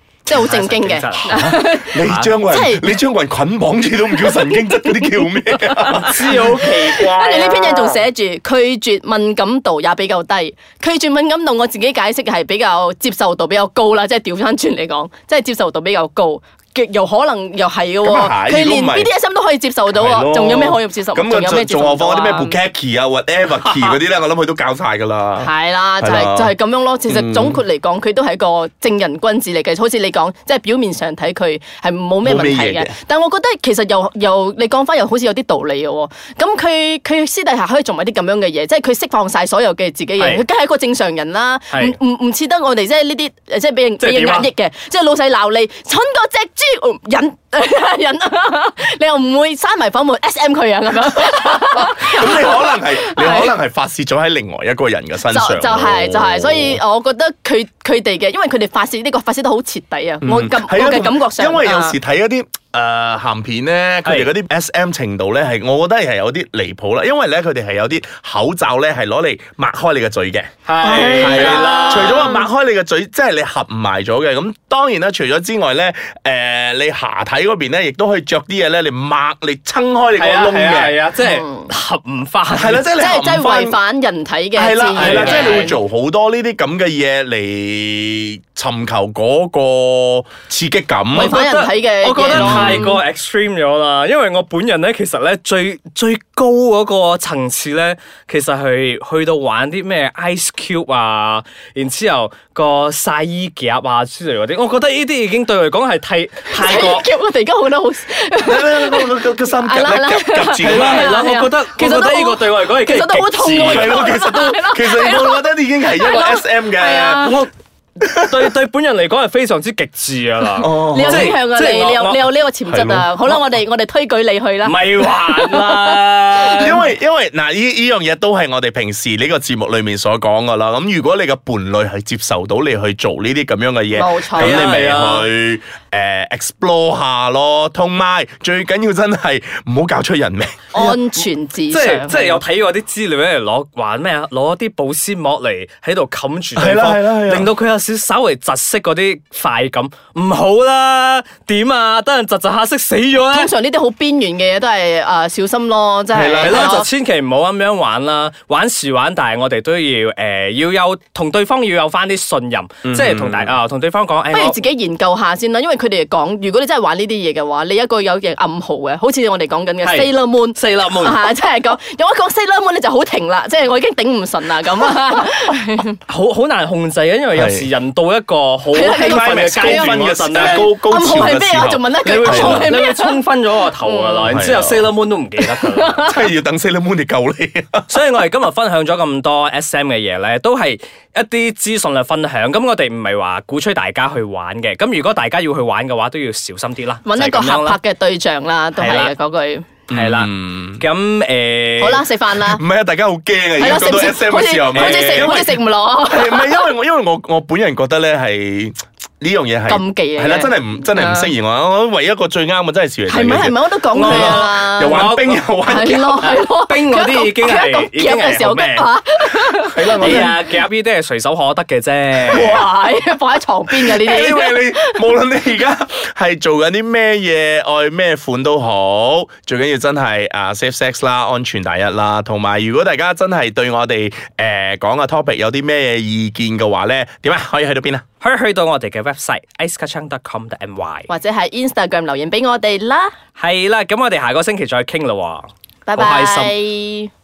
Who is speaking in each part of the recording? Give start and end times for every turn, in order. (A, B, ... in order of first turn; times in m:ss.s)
0:00.3-0:03.0 A
0:00.3-0:02.4 B
0:01.1-0:06.6 C
0:04.1-0:22.6 A
0:06.0-0:08.0 B
0:18.0-0:19.1 C
0:19.9-0:26.5 C
0:25.4-0:53.6 A
0:27.1-0:27.6 C
0:32.2-0:32.9 C
0:40.2-0:40.4 B
0:41.7-0:42.0 B
0:44.0-0:44.5 B
0:51.8-0:56.8 C
0:55.3-1:02.0 A
1:00.2-1:21.0 C
1:04.0-1:04.3 B
1:10.7-1:12.3 B
1:10.8-1:12.4 A
1:20.2-1:22.9 B
1:21.2-1:21.7 A
1:22.5-1:23.8 C
1:23.0-1:25.8 A
1:24.6-1:31.4 C
1:25.0-1:25.8 B
1:31.1-1:33.0 A
1:31.2-1:47.1 B
1:32.3-1:32.9 C
1:46.5-1:57.4 A
1:48.4-1:51.1 C
1:50.6-1:54.0 B
1:53.5-1:57.4 C
1:57.2-1:57.5 B
1:58.0-2:02.2 B
1:58.0-1:58.5 C
2:00.6-2:01.4 C
2:00.9-2:06.7 A
2:02.7-2:03.1 C
2:04.6-2:06.8 B
2:06.6-2:21.0 C
2:13.9-2:14.7 A
2:14.4-2:15.3 B
2:20.7-2:22.4 A
2:21.7-2:33.5 B
2:26.6-2:27.5 C
2:33.3-2:36.9 A
2:36.1-2:36.8 C
2:36.4-2:44.6 B
2:42.8-2:43.6 C
2:44.3-2:56.0 A
2:49.8-2:51.3 B
2:56.1-3:00.7 B
2:57.3-2:57.7 C
2:58.7-3:03.2 A
2:58.8-3:02.7 C
3:02.0-3:06.1 B
3:03.7-3:04.4 A
3:04.2-3:04.9 C
3:05.5-3:06.2 A
3:06.0-3:07.9 C
3:07.9-3:17.8 B
3:17.0-3:19.7 A
3:18.8-3:19.1 B
3:19.9-3:20.9 C
3:19.9-3:22.0 B
3:21.8-3:22.6 A
3:22.4-3:36.3 C
3:23.6-3:26.6 A
3:24.7-3:25.4 B
3:29.7-3:31.3 A
3:33.1-3:35.0 A
3:33.9-3:38.9 B
3:35.6-3:40.4 A
3:39.6-3:40.4 C
3:40.0-3:42.6 B
3:42.2-3:45.1 A
3:42.3-3:42.6 C
3:43.7-3:58.0 C
3:58.2-4:01.1 B
4:01.1-4:03.1 A
4:03.4-4:06.6 B
4:05.9-4:07.1 A